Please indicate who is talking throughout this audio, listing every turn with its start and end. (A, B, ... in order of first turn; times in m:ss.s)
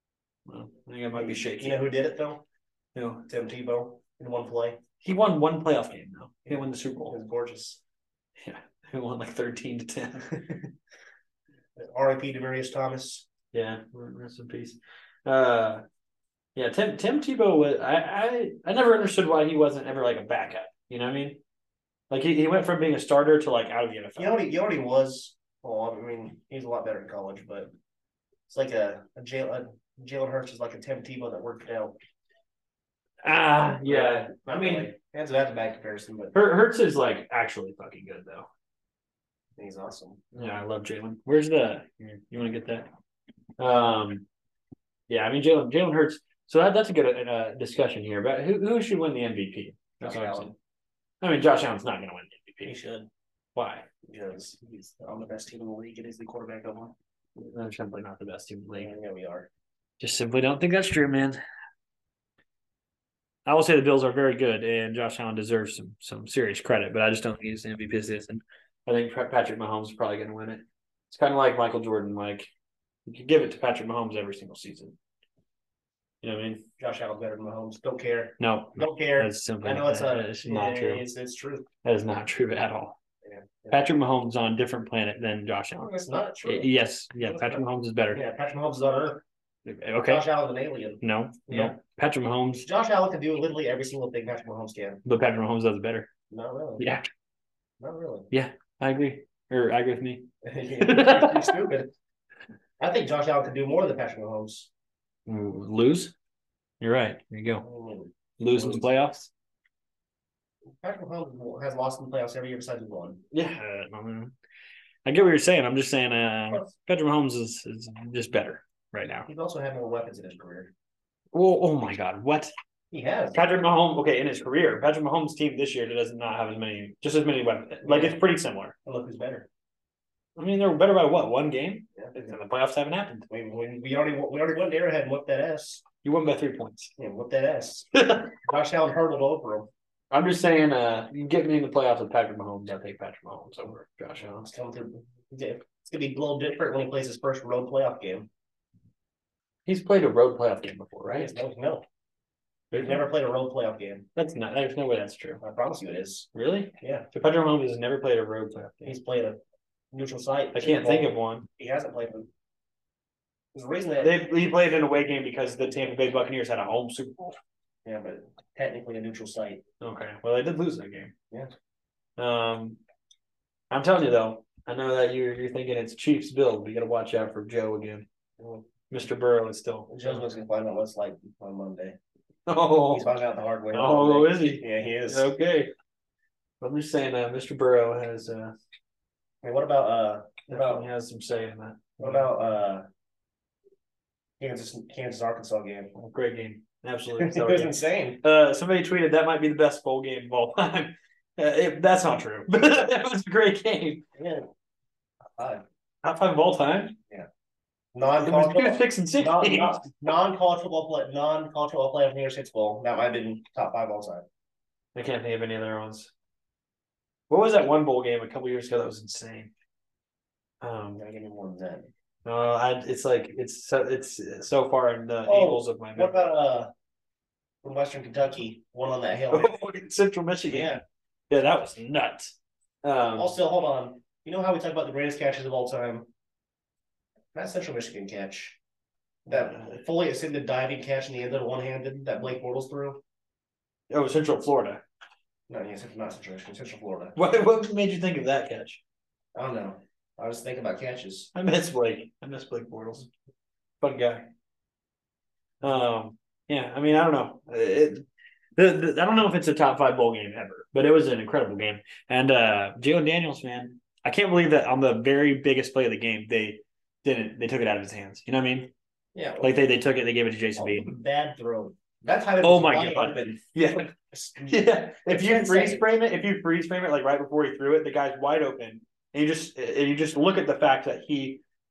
0:00.5-0:01.8 A
0:01.1-0:02.4 B
0:02.9-0:03.2 A
0:03.3-0:04.8 B
0:05.0-0:07.1 A
0:06.4-0:07.8 B
0:08.4-0:10.3 A
0:10.4-0:10.7 B
0:11.8-0:13.2 B
0:13.5-0:15.8 A
0:16.5-0:21.4 A
0:22.1-0:24.4 A
0:24.2-0:27.7 B
0:28.5-0:32.0 B
0:33.2-0:34.9 A
0:33.7-0:36.3 B
0:36.3-0:38.5 A
0:39.6-0:40.2 B
0:40.3-0:42.9 A
0:43.6-0:44.2 A
0:45.1-0:50.5 A
0:50.0-0:50.5 B
0:51.2-0:52.7 A
0:52.6-0:53.1 B
0:53.5-0:53.8 A
0:54.1-0:56.9 B
0:57.4-0:58.9 A
0:58.8-0:59.5 B
1:00.0-1:01.4 A
1:03.4-1:12.5 A
1:13.0-1:14.9 A
1:16.2-1:16.7 A
1:16.8-1:21.7 B
1:18.4-1:21.0 A
1:21.8-1:23.0 A
1:23.2-1:23.8 B
1:23.7-1:25.9 A
1:25.8-1:29.2 B
1:26.4-1:28.2 A
1:29.6-1:30.2 A
1:30.0-1:31.8 B
1:31.0-1:32.7 A
1:32.6-1:35.0 B
1:35.0-1:36.1 A
1:36.3-1:36.9 B
1:36.8-1:37.0 A
1:37.8-1:38.3 B
1:38.3-1:41.5 A
1:40.4-1:41.9 B
1:42.8-1:44.7 B
1:45.3-1:46.1 A
1:46.8-1:47.6 A
1:47.6-1:48.8 B
1:48.4-1:49.3 A
1:50.8-1:53.2 B
1:53.3-1:54.3 A
1:55.0-1:59.3 A
1:59.2-2:00.7 B
2:01.3-2:02.5 A
2:02.9-2:03.4 B
2:03.3-2:08.7 A
2:07.8-2:08.2 B
2:08.8-2:09.5 B
2:10.4-2:13.3 A
2:13.3-2:15.8 B
2:16.0-2:16.9 A
2:17.0-2:19.7 B
2:18.0-2:18.3 A
2:20.1-2:24.4 A
2:24.2-2:28.3 B
2:29.6-2:31.4 A
2:31.1-2:31.8 B
2:32.7-2:33.0 A
2:32.7-2:34.1 B
2:34.2-2:35.4 A
2:35.4-2:36.3 B
2:36.3-2:39.0 A
2:36.8-2:37.1 B
2:38.8-2:39.4 B
2:39.9-2:42.3 B
2:40.5-2:41.4 A
2:43.5-2:44.3 B
2:44.0-2:47.4 A
2:47.8-2:49.6 B
2:49.8-2:51.1 A
2:52.2-2:52.8 A
2:53.7-2:58.0 A
2:58.4-2:58.6 B
2:58.9-3:00.2 A
2:59.9-3:02.0 B
3:02.5-3:03.1 A
3:02.9-3:05.3 B
3:03.7-3:05.7 A
3:06.6-3:08.5 A
3:09.4-3:10.8 B
3:10.5-3:12.3 A
3:12.0-3:12.8 B
3:14.4-3:15.9 B
3:16.0-3:24.0 A
3:17.2-3:18.2 B
3:24.2-3:24.5 B
3:25.4-3:25.6 B
3:26.0-3:26.9 A
3:27.9-3:34.2 B
3:28.2-3:29.9 A
3:34.9-3:36.1 A
3:37.3-3:39.5 A
3:40.6-3:41.0 A
3:41.0-3:41.9 B
3:42.2-3:46.3 A
3:45.2-3:46.7 B
3:47.6-3:49.5 B
3:49.3-3:50.8 A
3:50.5-3:50.8 B
3:51.3-3:52.3 A
3:52.8-3:53.3 A
3:53.1-3:56.1 B
3:57.3-3:58.6 B
3:59.2-4:03.0 B
3:59.3-3:59.8 A
4:03.9-4:04.8 A
4:05.5-4:07.2 B
4:07.2-4:08.8 A
4:09.3-4:11.3 B
4:11.3-4:13.1 A
4:13.8-4:14.3 A
4:15.6-4:18.0 A
4:18.6-4:28.7 A
4:29.1-4:29.6 B
4:29.4-4:30.9 A
4:30.6-4:35.8 B
4:32.4-4:33.9 A
4:34.5-4:41.4 A